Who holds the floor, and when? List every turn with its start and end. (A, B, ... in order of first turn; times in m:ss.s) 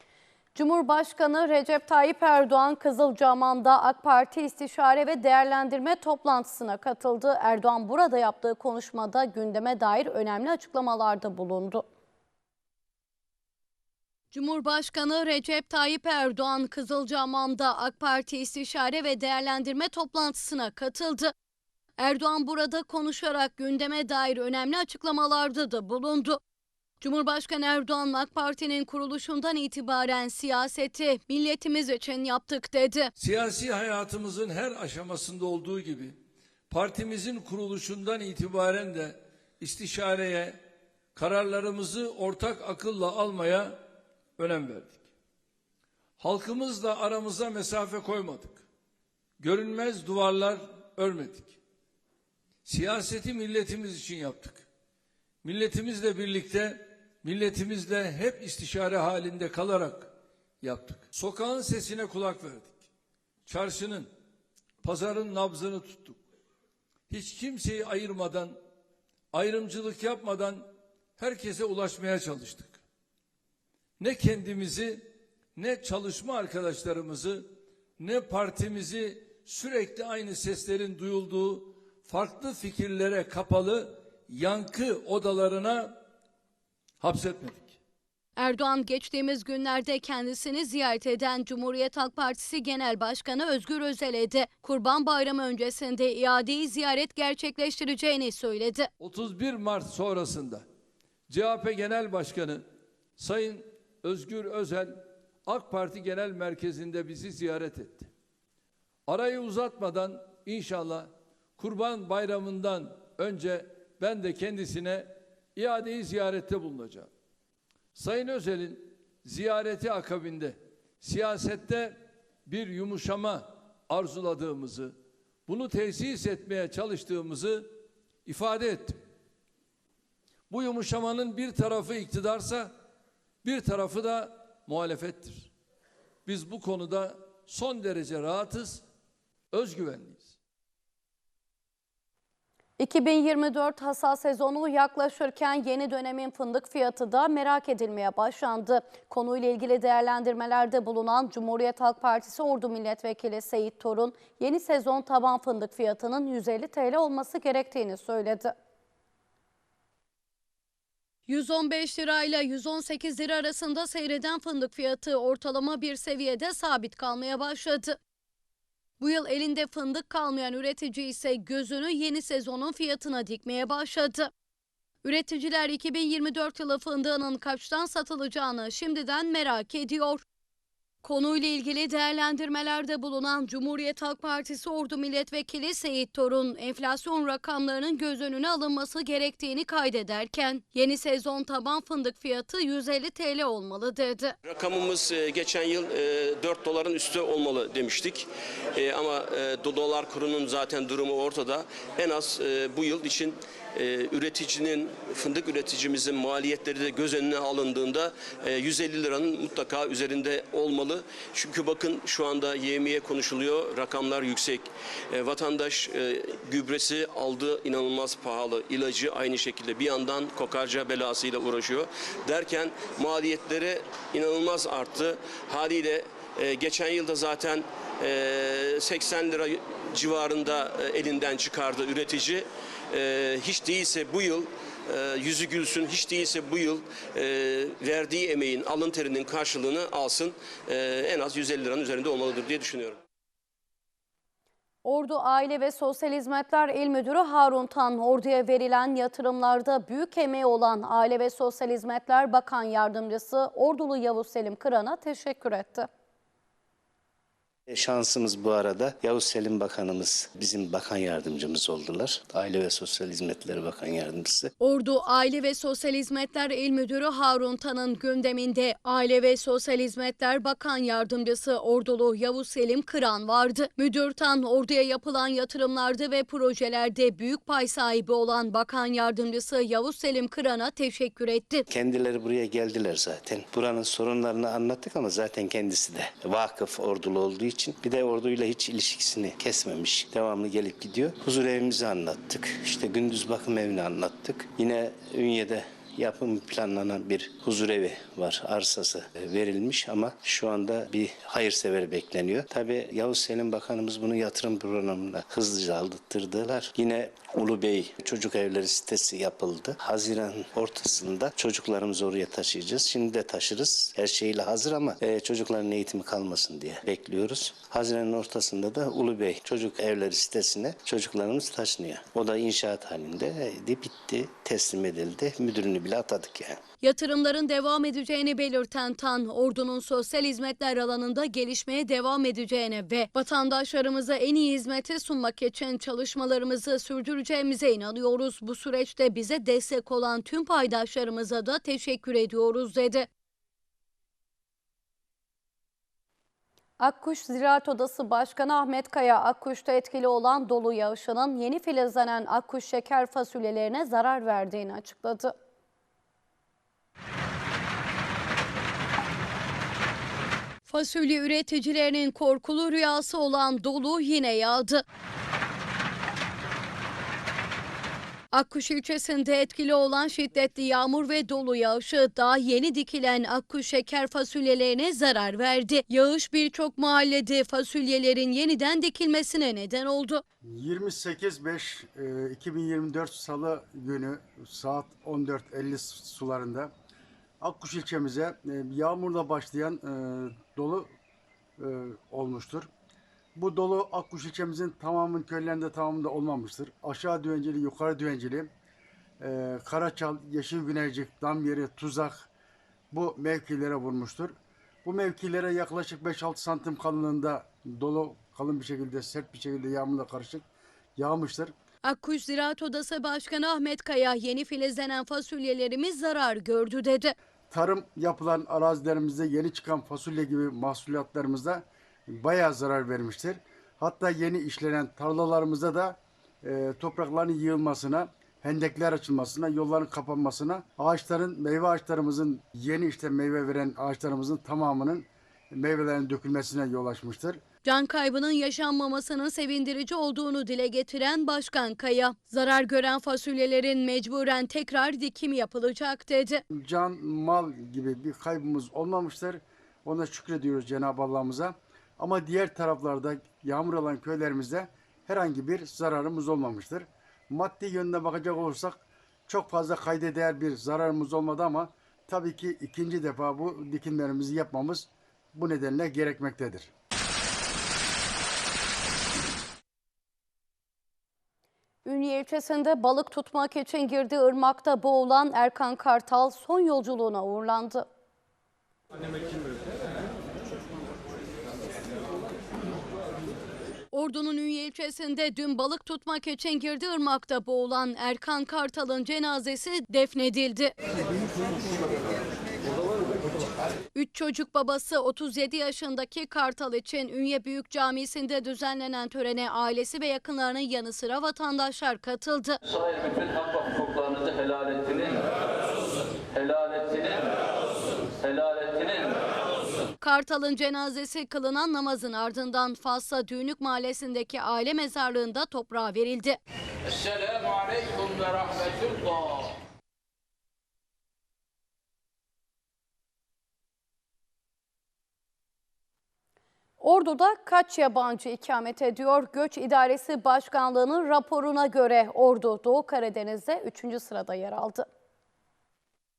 0:00.5-0:11.8 A
0:14.3-0:21.3 A
0:22.0-0:26.4 A
0:27.0-0:33.1 A
0:33.2-0:36.2 B
0:36.7-0:40.6 B
0:41.1-0:43.8 B
0:44.4-0:45.0 B
0:46.2-0:48.6 B
0:49.4-0:51.6 B
0:52.6-0:54.6 B
0:55.4-1:02.8 B
1:03.4-1:04.1 B
1:04.8-1:06.2 B
1:07.1-1:08.6 B
1:09.3-1:12.8 B
1:14.0-1:26.0 B
1:27.0-1:27.8 B
1:28.4-1:38.9 A
1:39.0-1:40.6 B
1:41.3-1:42.6 B
1:43.2-1:48.1 B
1:49.1-1:57.1 B
1:57.9-2:09.0 B
2:10.5-2:12.7 B
2:13.4-2:15.5 B
2:16.2-2:18.8 B
2:19.5-2:20.3 B
2:22.8-2:38.5 A
2:41.3-2:48.0 A
2:49.0-2:54.3 A
2:55.0-3:00.2 A
3:01.0-3:14.3 A
3:14.4-4:03.0 C
4:04.8-4:15.9 A
4:17.7-4:24.5 D
4:24.6-4:41.6 A
4:41.7-5:26.6 D
5:26.8-5:43.1 A
5:46.8-5:55.3 A
6:00.7-6:04.8 A
6:08.3-6:20.2 A
6:20.4-6:26.7 E
6:27.4-6:30.9 E
6:31.6-6:32.7 E
6:33.3-6:38.5 E
6:39.2-6:42.3 E
6:42.9-6:51.5 E
6:51.8-6:57.1 A
6:57.5-7:17.4 E
7:17.6-7:26.4 A
7:26.6-7:46.7 E
7:51.8-7:57.8 A
8:03.9-8:10.7 A
8:13.9-8:22.6 A
8:22.7-8:25.3 F
8:26.3-8:27.4 F
8:28.2-8:29.2 F
8:30.0-8:36.4 A
8:36.8-8:39.3 F
8:46.8-8:54.8 A